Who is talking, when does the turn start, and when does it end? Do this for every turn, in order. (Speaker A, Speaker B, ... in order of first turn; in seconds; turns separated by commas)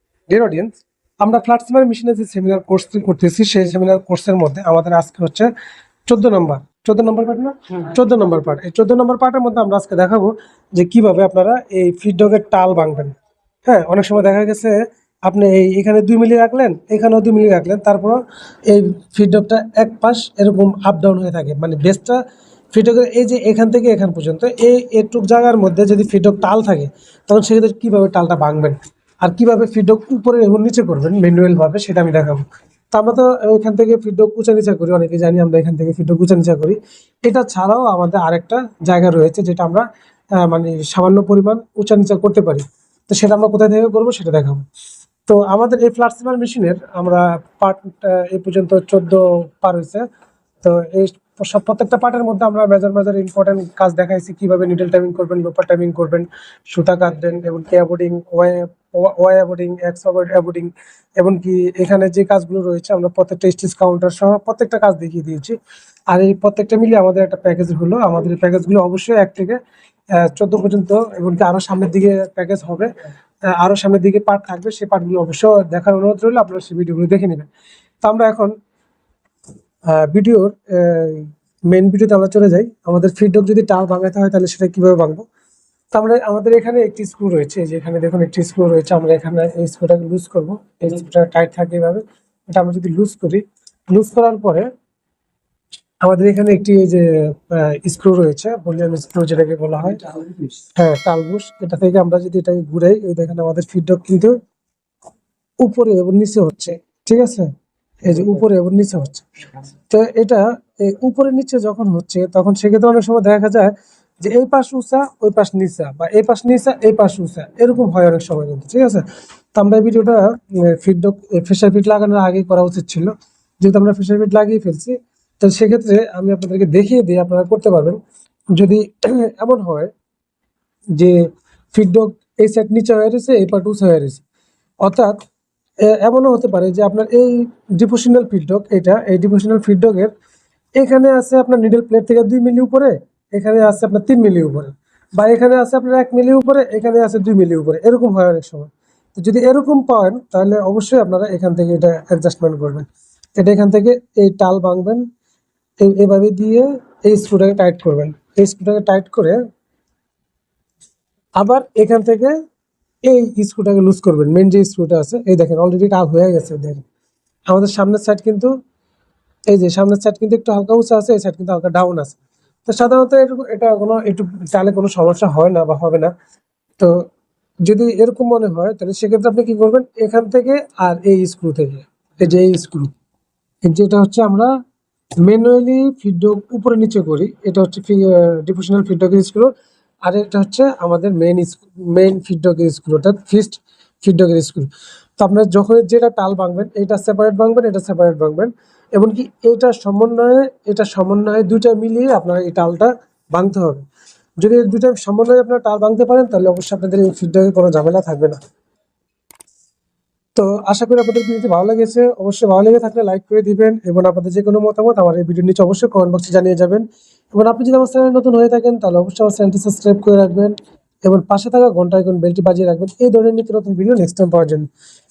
Speaker A: 0.3-5.5, Speaker A: 6.1-22.2, Speaker A: 22.7-39.9, Speaker A: 40.4-44.6, Speaker A: 45.3-50.0, Speaker A: 50.6-65.6, Speaker A: 66.1-69.6, Speaker A: 70.2-72.9, Speaker A: 73.5-77.5, Speaker A: 78.0-78.5, Speaker A: 79.9-85.2, Speaker A: 85.9-94.7, Speaker A: 96.0-100.1, Speaker A: 100.8-104.4, Speaker A: 105.6-107.5, Speaker A: 108.0-109.3, Speaker A: 109.9-113.7, Speaker A: 114.2-119.0, Speaker A: 119.5-128.0, Speaker A: 128.5-129.9, Speaker A: 131.7-134.2, Speaker A: 134.8-135.2, Speaker A: 135.8-140.1, Speaker A: 140.8-152.9, Speaker A: 153.4-155.1, Speaker A: 155.8-159.4, Speaker A: 161.4-162.3, Speaker A: 163.1-166.8, Speaker A: 167.5-168.5, Speaker A: 169.5-176.1, Speaker A: 177.7-182.9, Speaker A: 183.6-184.5, Speaker A: 185.2-189.5, Speaker A: 190.0-203.8, Speaker A: 204.4-208.4, Speaker A: 210.3-224.7